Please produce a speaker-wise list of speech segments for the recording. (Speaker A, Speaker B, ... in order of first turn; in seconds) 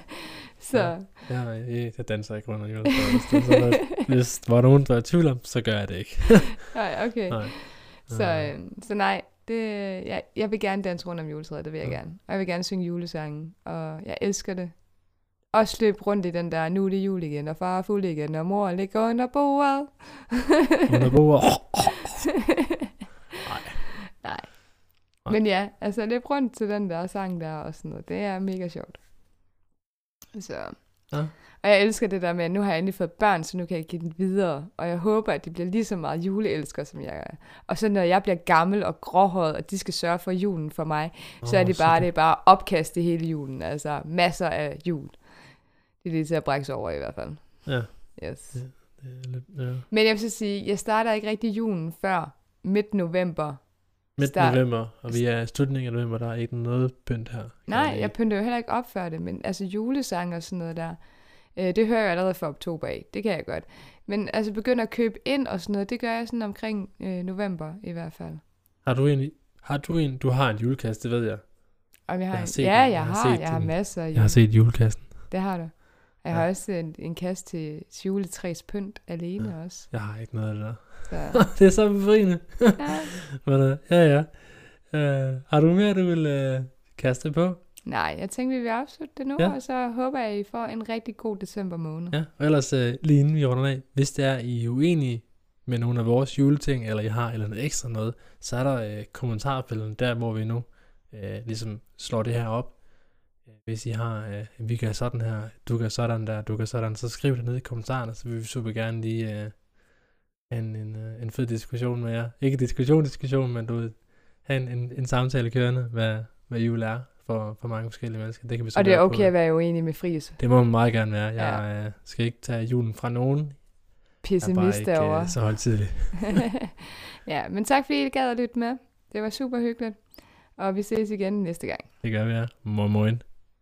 Speaker A: 0.6-1.1, 3.5-4.0, 6.7-20.9, 24.2-29.0, 30.3-48.6, 49.9-55.2, 57.7-68.4, 72.1-79.9, 81.1-81.5, 82.8-83.2, 87.9-92.2, 118.8-121.6, 124.2-126.0, 127.2-131.9
Speaker B: 0.7-8.5, 20.9-22.3, 23.4-24.0, 41.4-42.1, 47.6-49.9, 54.2-58.1, 68.8-75.5, 79.4-87.6, 92.1-119.4, 120.4-126.5, 132.0-133.2